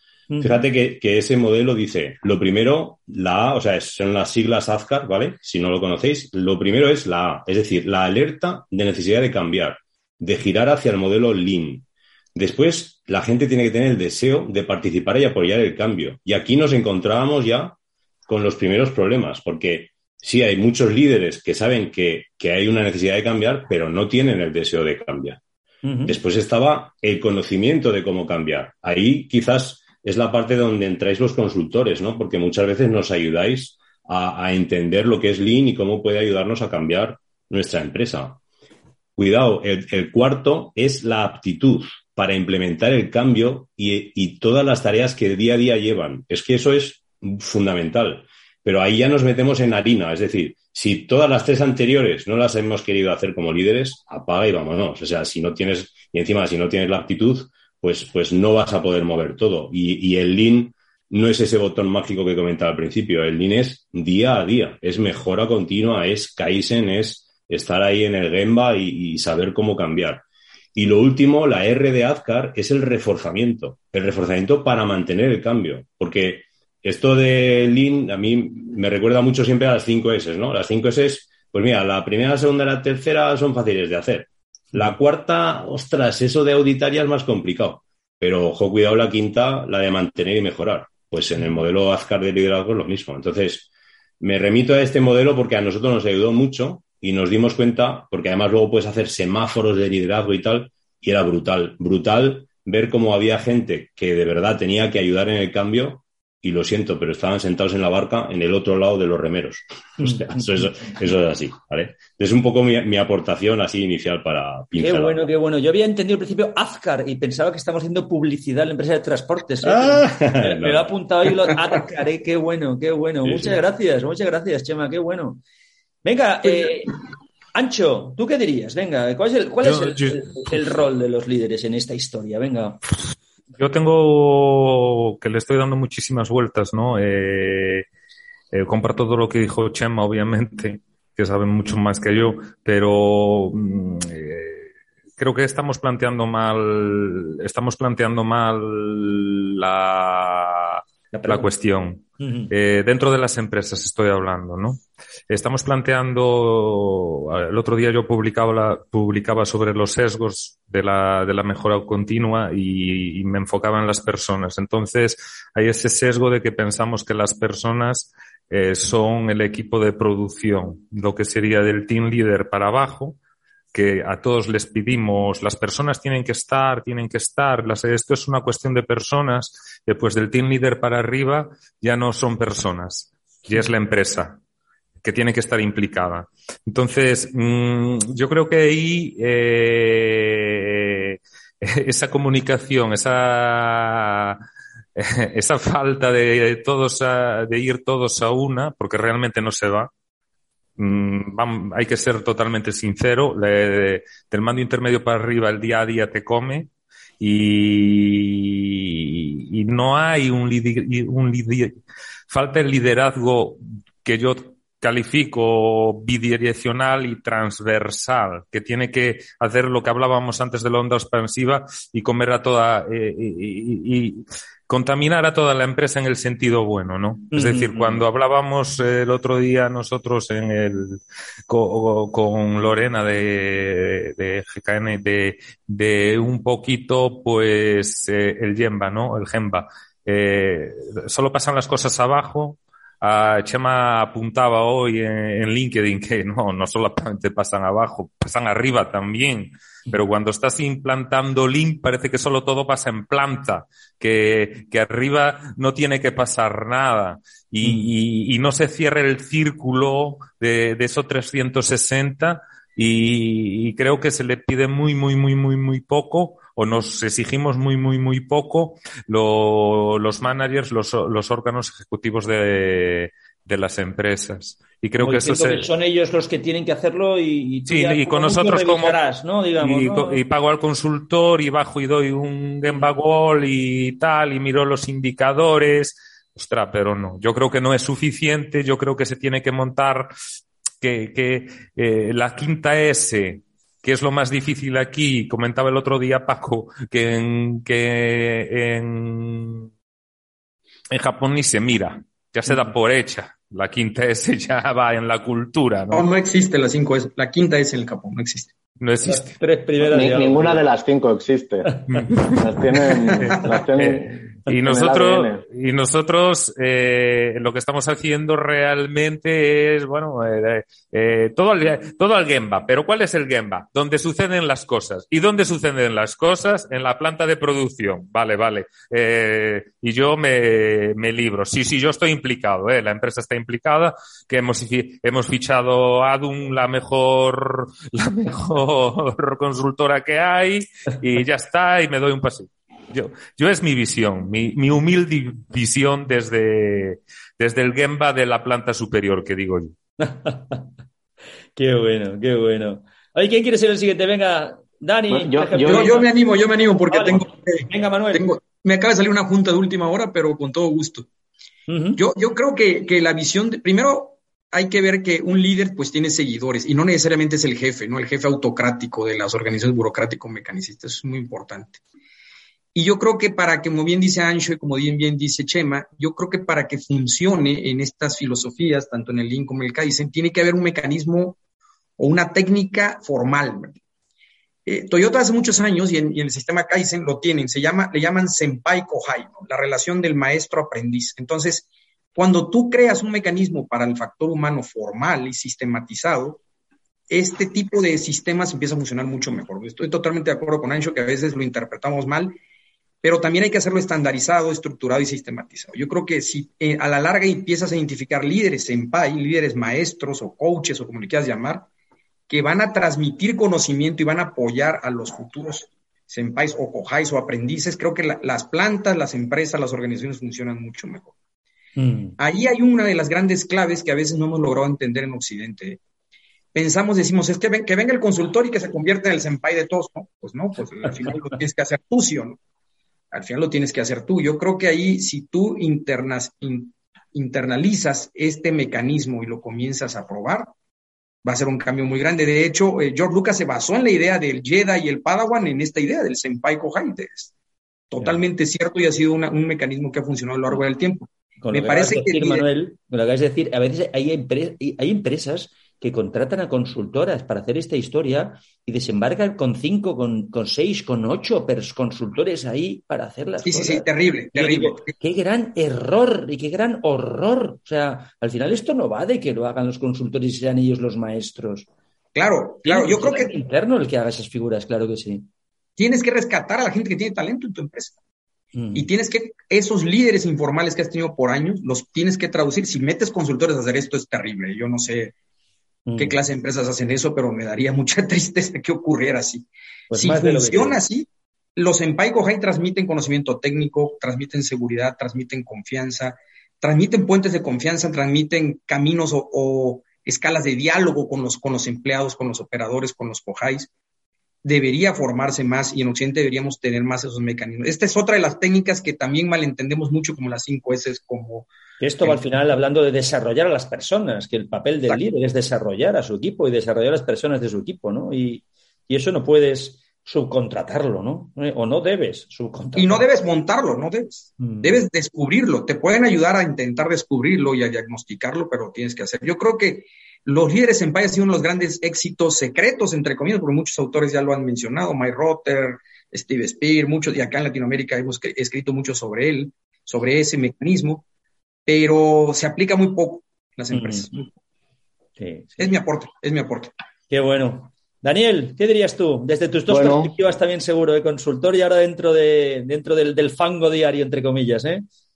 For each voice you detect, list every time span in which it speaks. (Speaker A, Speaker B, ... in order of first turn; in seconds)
Speaker A: 0.3-0.6, 25.8-26.2, 114.8-125.4, 126.0-127.0, 127.5-132.8, 151.1-151.5, 152.2-152.5, 227.3-228.0, 275.0-280.2, 309.0-310.6, 350.0-350.7, 351.6-356.1, 356.9-358.3, 361.7-362.0, 421.8-422.2, 451.4-471.7, 472.6-475.3, 478.5-478.9, 485.9-486.2, 489.9-490.8, 511.8-523.0, 524.4-524.9, 543.7-544.1, 545.2-545.7, 547.1-554.9
Speaker B: 0.4-17.8, 18.3-25.4, 26.1-38.4, 39.2-70.2, 70.7-93.7, 94.2-115.2, 119.6-120.9, 123.2-123.6
Speaker C: 129.7-130.2, 133.6-137.8, 138.5-144.7, 145.2-173.2, 173.7-184.4, 185.0-194.4, 194.9-199.9, 200.8-211.7, 212.3-275.7, 277.7-279.0, 279.6-290.1, 290.8-299.7, 300.9-306.1, 308.8-309.4, 311.9-312.5, 313.1-349.7
Speaker D: 305.9-308.5, 355.6-361.1, 361.9-371.8, 372.7-381.4, 382.0-383.8, 384.6-396.4, 397.1-402.4, 403.0-411.7, 412.3-421.1, 422.2-425.8, 426.5-432.4, 433.1-440.5, 441.2-447.3, 447.9-452.4, 463.4-464.9, 472.1-473.4, 475.8-477.9, 478.7-485.1, 486.0-503.7, 504.4-511.5, 522.8-541.0, 541.7-544.3, 545.6-546.7
Speaker E: 309.8-311.7, 312.4-315.4, 355.1-355.9, 549.7-550.1